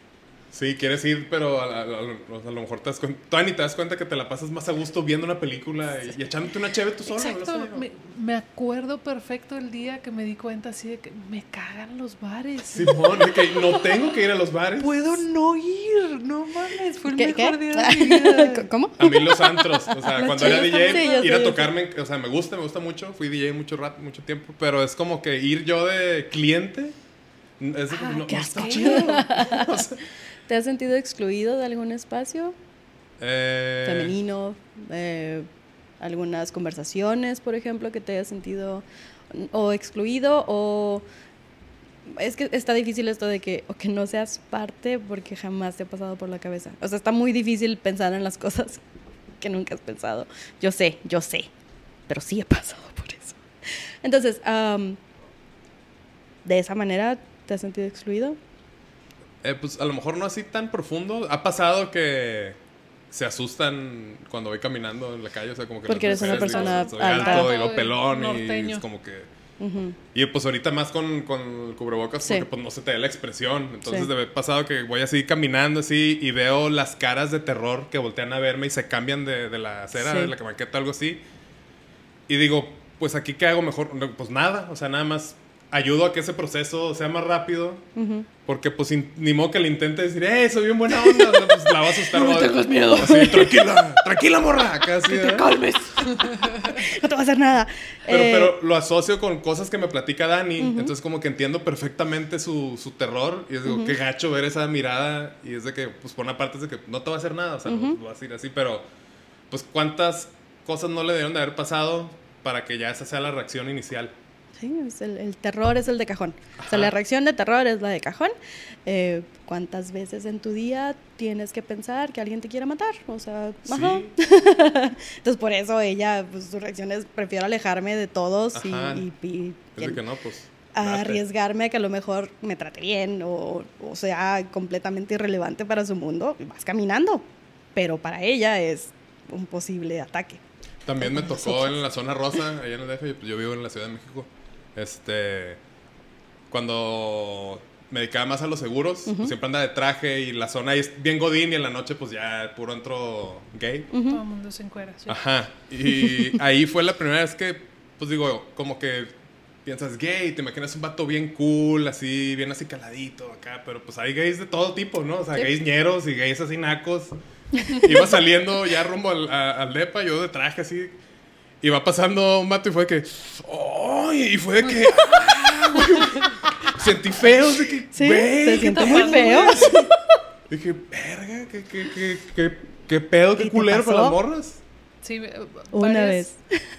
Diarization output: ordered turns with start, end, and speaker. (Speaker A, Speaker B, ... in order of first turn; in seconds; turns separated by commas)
Speaker A: 0.5-7.8, Speaker B: 7.1-14.0, Speaker A: 12.6-15.2, Speaker B: 14.8-18.7, Speaker C: 17.1-21.7, Speaker A: 19.0-26.9, Speaker B: 20.1-21.5, Speaker A: 27.6-30.0, Speaker B: 27.9-29.5, Speaker C: 28.3-29.9, Speaker C: 30.5-32.5, Speaker A: 33.2-34.1, Speaker C: 33.8-35.5, Speaker C: 36.0-41.0, Speaker C: 42.0-48.8, Speaker C: 49.4-51.5, Speaker C: 52.1-55.0, Speaker C: 56.4-58.4, Speaker A: 59.4-62.6, Speaker A: 63.1-69.3, Speaker C: 65.9-67.5, Speaker B: 66.0-68.8, Speaker C: 69.6-70.0, Speaker A: 70.1-81.2, Speaker C: 80.0-80.3, Speaker A: 82.3-87.8, Speaker C: 88.0-88.3, Speaker A: 88.5-95.6, Speaker C: 90.9-94.0, Speaker C: 94.8-98.6, Speaker B: 96.0-96.8, Speaker A: 98.1-108.8, Speaker C: 100.6-100.9, Speaker C: 103.6-103.9, Speaker C: 107.6-108.0, Speaker A: 109.5-114.1, Speaker C: 114.6-118.3, Speaker A: 116.6-116.9, Speaker C: 118.8-130.0, Speaker A: 123.7-124.1, Speaker A: 128.5-129.1, Speaker A: 129.7-131.2, Speaker C: 130.8-140.4, Speaker A: 140.8-145.6, Speaker C: 141.0-141.8, Speaker A: 146.5-153.9, Speaker C: 149.1-149.3, Speaker C: 153.9-154.2, Speaker B: 154.1-155.2, Speaker A: 155.1-159.1, Speaker C: 155.9-156.4, Speaker A: 159.6-167.1, Speaker C: 167.6-167.9, Speaker A: 167.7-170.9, Speaker A: 171.6-179.8, Speaker C: 174.7-176.0, Speaker C: 177.9-180.1, Speaker B: 178.5-179.8, Speaker A: 180.5-184.6, Speaker C: 183.4-184.2, Speaker B: 185.0-186.3, Speaker C: 185.7-186.7